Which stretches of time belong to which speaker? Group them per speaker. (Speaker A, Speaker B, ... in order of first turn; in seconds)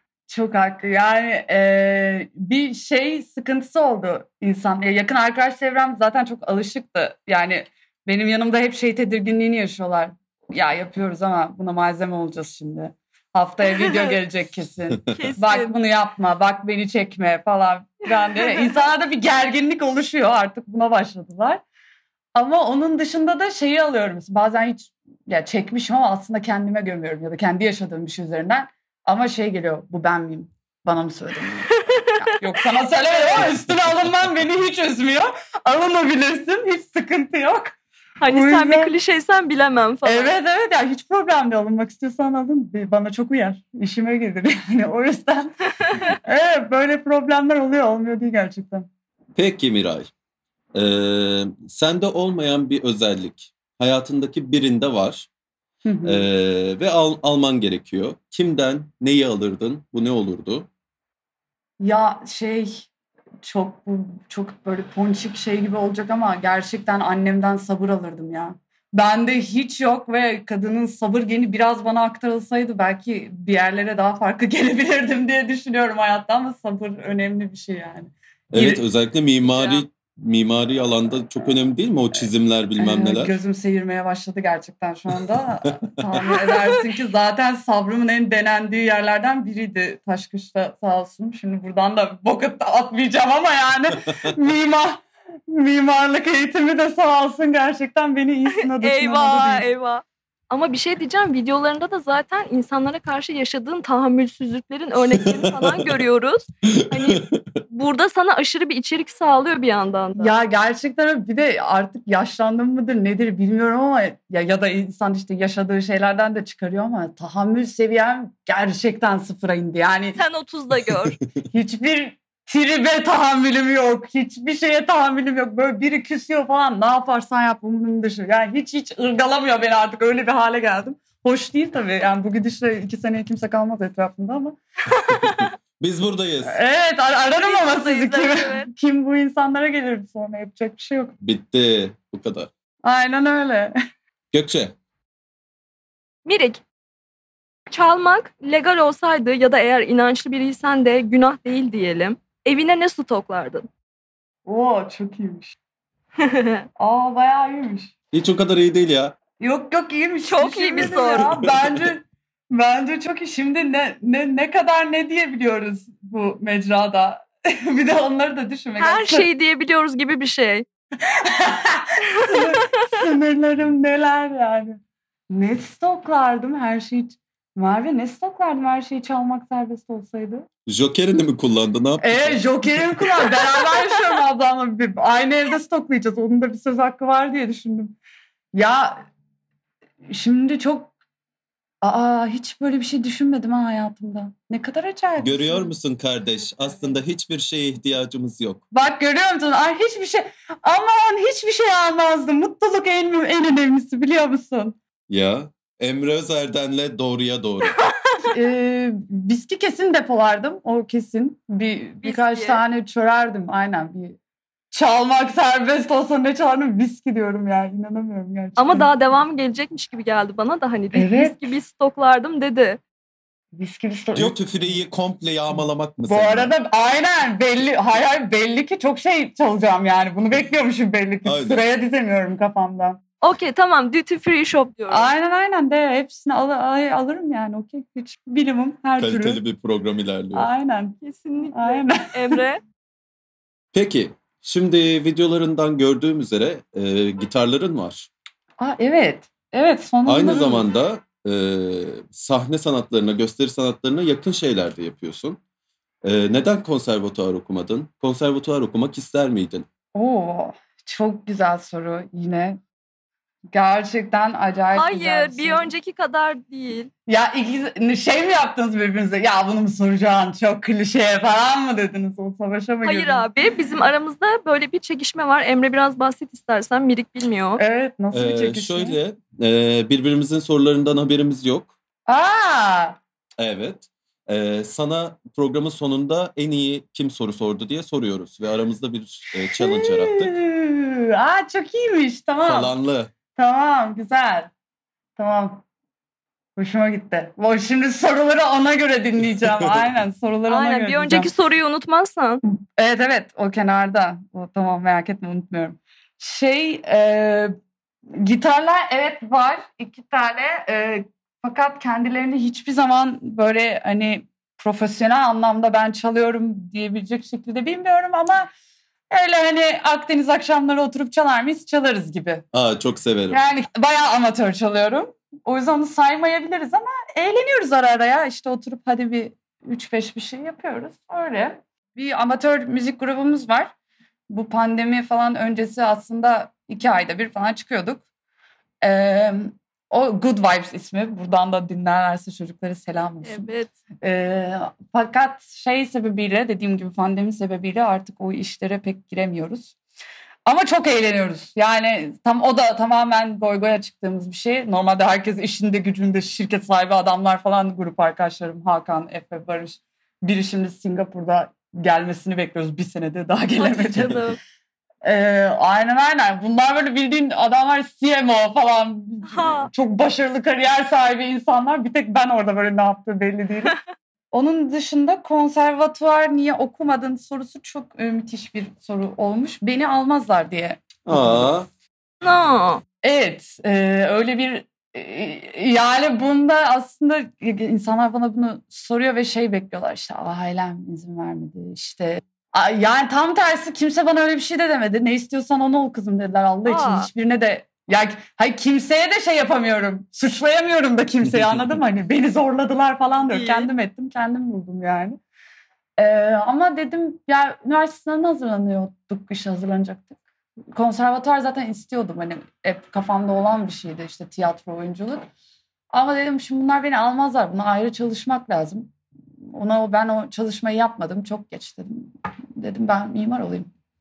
Speaker A: 0.3-21.6, 22.4-38.9, 40.0-45.5, 46.2-48.9, 55.9-56.3, 61.8-62.9, 63.4-78.8, 79.5-79.8, 82.8-99.7, 110.2-120.2, 121.5-134.6, 136.4-141.1, 142.8-143.8, 154.5-155.6, 156.8-157.9, 159.4-169.3, 171.0-174.8, 175.3-180.5, 182.0-188.0, 188.5-189.1, 190.1-190.9, 191.8-195.7, 198.7-204.8, 208.3-214.2, 214.7-218.9, 220.9-221.4, 223.6-224.8, 225.5-233.0, 234.9-239.4, 240.3-241.0, 241.5-242.4, 248.6-250.7, 259.9-262.6, 263.5-265.7, 267.1-273.3, 277.6-279.0, 282.1-283.0, 289.5-292.8, 293.4-294.5, 295.2-295.6, 296.6-301.3, 302.8-307.5, 308.1-318.5, 319.1-322.4, 323.3-333.7, 334.3-338.0, 338.8-343.5, 344.0-349.8, 350.5-364.2, 365.0-373.8, 374.3-381.5, 383.0-405.2, 406.0-410.2, 410.7-415.3, 415.9-418.9, 419.5-423.7
Speaker B: 13.7-14.2, 15.1-15.8, 18.4-18.9, 38.2-40.3, 98.6-110.3, 120.2-121.2, 135.1-135.5, 137.4-138.7, 146.2-146.6, 147.7-153.7, 156.2-156.7, 160.3-161.3, 168.8-170.7, 172.3-172.9, 212.0-212.6, 218.6-222.8, 233.2-235.1, 241.0-242.6, 264.8-266.9, 272.8-277.6, 300.5-302.4, 343.2-343.7, 363.6-364.4, 369.3-369.7, 382.2-382.8, 396.7-397.1, 403.3-403.7
Speaker C: 49.4-50.1, 50.7-55.3, 56.0-60.7, 78.5-83.3, 105.0-106.0, 106.7-107.6, 135.8-136.6, 141.2-142.5, 144.3-144.8, 158.1-159.2, 161.1-161.9, 180.7-183.1, 195.2-198.6, 205.1-207.8, 224.1-226.5, 231.2-231.6, 239.0-240.5, 243.7-248.1, 250.1-255.4, 256.0-259.7, 278.1-281.7, 283.4-290.3, 292.4-293.1, 299.4-299.8, 322.5-323.4, 381.1-381.7